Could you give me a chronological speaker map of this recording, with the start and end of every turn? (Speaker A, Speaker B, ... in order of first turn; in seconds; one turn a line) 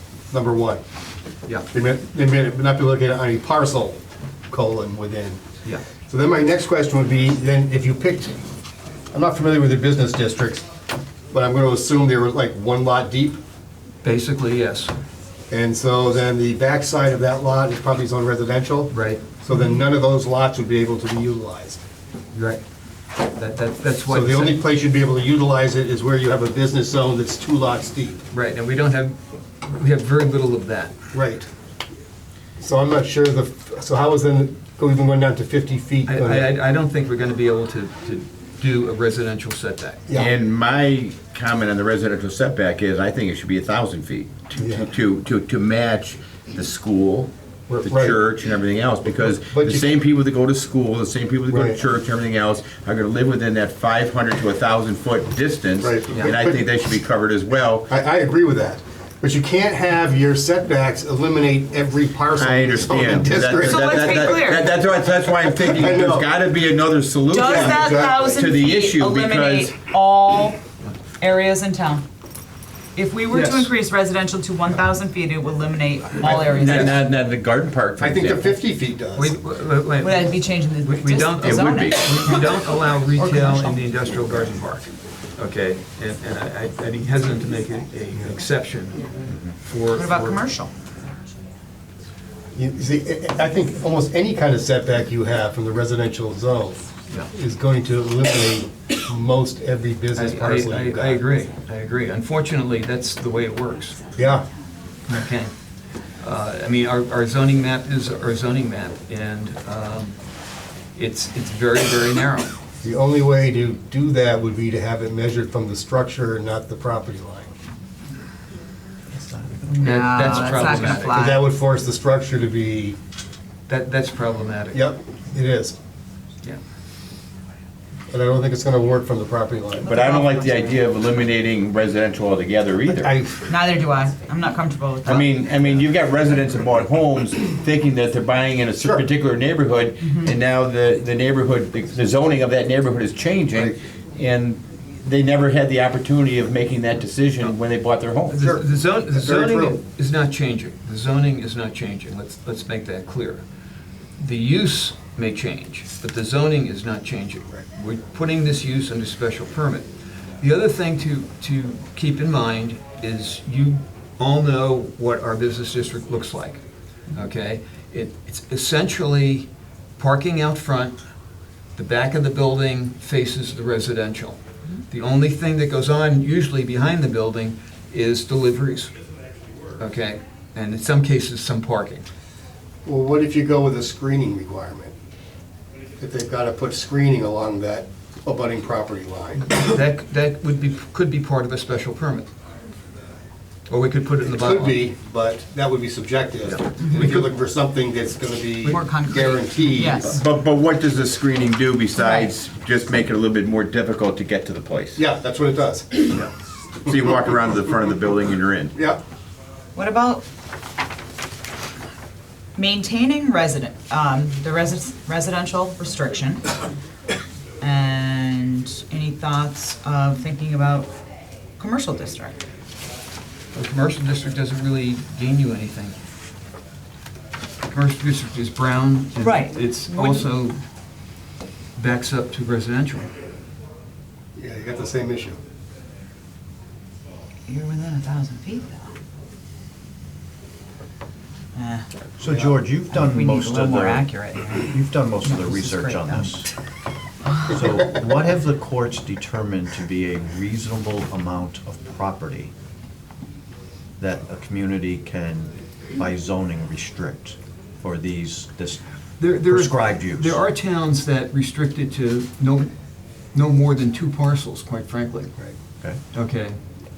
Speaker A: 0.3-0.8
Speaker A: 1.7-5.4
Speaker A: 6.1-8.4
Speaker A: 9.1-10.7
Speaker A: 11.3-13.4
Speaker B: 14.0-14.9
Speaker A: 15.5-21.8
Speaker B: 18.9-19.2
Speaker B: 22.3-22.6
Speaker B: 23.2-24.6
Speaker A: 24.1-28.2
Speaker B: 28.3-30.9
Speaker A: 31.1-31.5
Speaker A: 32.6-36.5
Speaker B: 36.1-40.1
Speaker A: 40.1-40.4
Speaker C: 40.1-57.9
Speaker A: 44.6-44.9
Speaker A: 47.7-48.2
Speaker A: 49.1-49.9
Speaker A: 51.5-51.8
Speaker A: 55.8-56.6
Speaker A: 57.9-64.7
Speaker C: 62.3-69.8
Speaker D: 63.5-64.7
Speaker A: 65.3-66.3
Speaker D: 67.3-70.6
Speaker A: 67.4-68.5
Speaker D: 71.2-72.1
Speaker D: 73.0-77.0
Speaker B: 73.3-73.7
Speaker C: 76.2-78.6
Speaker B: 76.5-77.0
Speaker A: 78.0-79.4
Speaker B: 79.2-89.1
Speaker D: 80.0-83.9
Speaker C: 81.4-82.1
Speaker B: 89.6-90.4
Speaker D: 89.9-90.7
Speaker A: 92.5-101.2
Speaker B: 100.1-104.1
Speaker A: 104.2-104.5
Speaker B: 105.1-105.5
Speaker B: 106.2-110.2
Speaker B: 111.0-112.5
Speaker A: 112.8-117.5
Speaker D: 119.6-121.5
Speaker B: 119.8-121.3
Speaker A: 121.0-123.0
Speaker B: 123.7-124.9
Speaker A: 124.7-125.8
Speaker A: 128.1-129.9
Speaker D: 129.8-130.9
Speaker C: 129.8-133.1
Speaker A: 132.9-133.5
Speaker D: 133.5-135.3
Speaker C: 135.1-148.4
Speaker A: 138.8-139.1
Speaker D: 140.0-140.3
Speaker B: 148.3-153.4
Speaker A: 148.4-149.8
Speaker B: 154.2-159.9
Speaker B: 160.4-171.0
Speaker B: 171.8-178.9
Speaker B: 179.8-182.1
Speaker A: 182.8-184.9
Speaker A: 186.0-189.6
Speaker B: 189.5-192.3
Speaker B: 193.7-194.8
Speaker A: 194.2-200.2
Speaker B: 196.4-197.3
Speaker D: 198.6-200.1
Speaker C: 200.0-205.0
Speaker D: 202.0-202.3
Speaker A: 204.9-206.3
Speaker C: 206.9-208.8
Speaker A: 208.7-209.0
Speaker D: 209.8-210.2
Speaker D: 212.6-216.6
Speaker D: 217.6-220.9
Speaker D: 221.5-222.4
Speaker B: 223.5-226.0
Speaker B: 227.7-230.6
Speaker D: 229.2-230.3
Speaker B: 231.8-233.1
Speaker A: 234.3-235.4
Speaker D: 237.5-238.9
Speaker D: 241.5-241.9
Speaker E: 242.2-244.1
Speaker A: 242.3-242.5
Speaker D: 242.9-246.4
Speaker E: 244.6-246.5
Speaker D: 247.3-247.6
Speaker E: 247.5-252.5
Speaker E: 254.0-260.4
Speaker B: 259.2-262.7
Speaker B: 263.3-265.4
Speaker B: 266.1-266.6